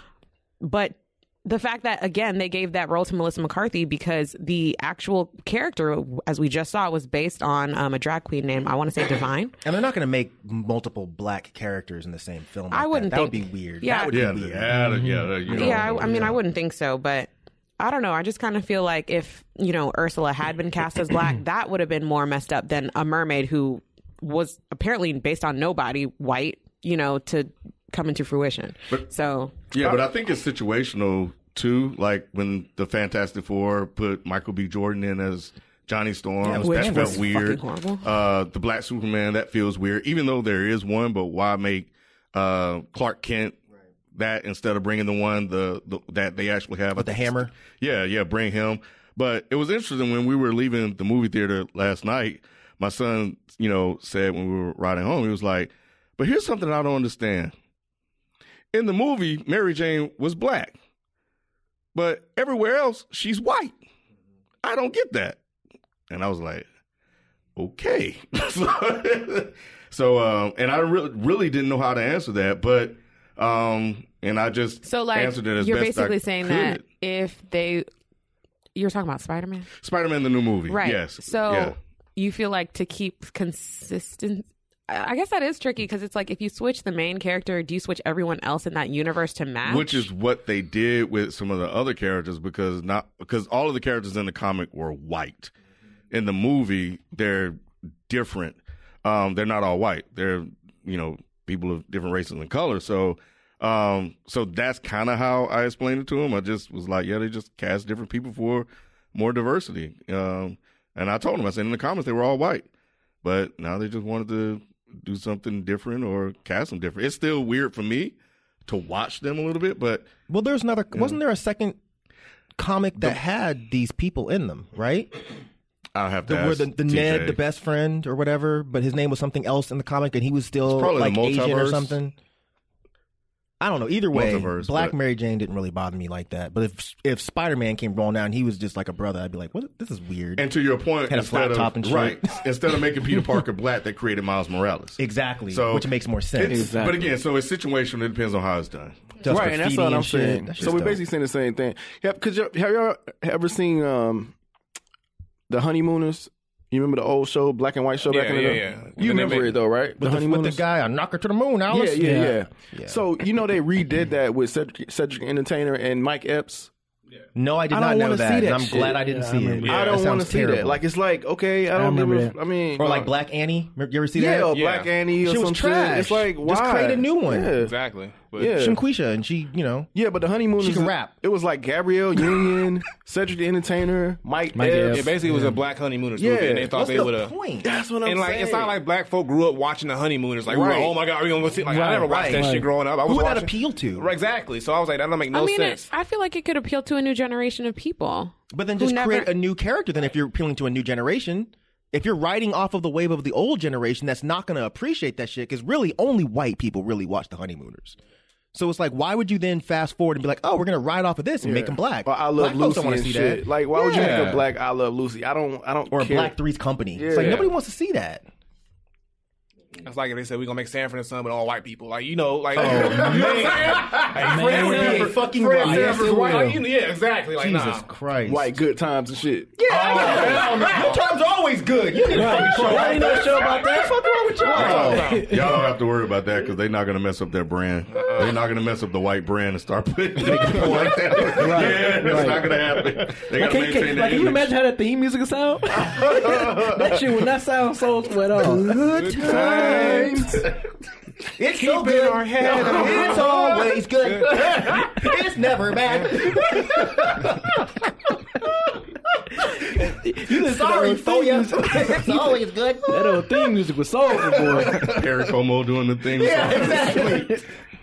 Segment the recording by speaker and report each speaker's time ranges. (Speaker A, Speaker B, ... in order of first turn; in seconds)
Speaker A: 0.6-9.5, 12.7-14.1, 15.5-29.7, 36.5-38.1, 74.8-77.8, 78.8-79.7, 80.7-90.1, 195.3-199.3
Speaker B: 9.6-14.9, 15.4-16.4, 36.4-37.3, 46.9-47.5, 120.3-121.8, 122.5-125.2, 126.2-132.1, 133.6-140.5, 141.1-142.4, 145.0-146.7, 149.2-151.0, 160.0-162.2, 162.7-163.0, 167.3-170.8, 172.8-174.6, 175.2-177.5, 178.4-179.9, 180.6-181.1, 186.7-187.7, 190.5-190.9, 192.0-194.1, 198.5-208.0, 208.5-214.2, 215.9-218.2, 222.5-226.5, 227.4-228.6, 229.6-235.2, 240.2-242.2, 248.4-250.2, 251.4-257.5, 259.4-263.5, 266.1-267.4
Speaker C: 14.1-16.4, 29.7-43.6, 44.1-57.5, 58.7-60.8, 61.9-63.8, 64.6-65.4, 66.1-66.7, 67.5-76.8, 79.8-81.8, 89.6-95.5, 96.1-112.7, 113.2-120.1, 125.9-127.4, 130.7-132.0, 134.1-134.9, 140.4-149.2, 234.5-244.5, 264.6-267.4
Speaker D: 14.7-15.3, 146.5-147.1, 162.0-162.4, 168.7-169.8, 171.7-172.4, 184.5-185.6, 191.6-192.7, 222.9-223.5, 224.1-226.6, 230.1-230.6, 232.1-235.7, 241.3-248.8, 249.4-250.2, 259.4-265.0
Speaker E: 149.2-154.3, 155.5-160.6, 161.7-166.7, 167.7-169.0, 169.6-173.1, 174.1-177.7, 178.3-178.8, 179.9-185.1, 186.2-186.7, 187.6-188.8, 190.5-190.9, 211.4-216.3, 216.9-217.5, 228.2-230.5, 248.4-250.5, 252.6-252.9
Speaker F: 158.1-159.6, 174.5-174.9, 177.6-178.6, 184.8-187.3, 188.0-195.9, 213.9-214.4, 217.1-217.4, 219.8-227.9, 229.7-231.0, 234.5-235.2, 237.9-238.4, 248.9-250.1, 251.5-254.9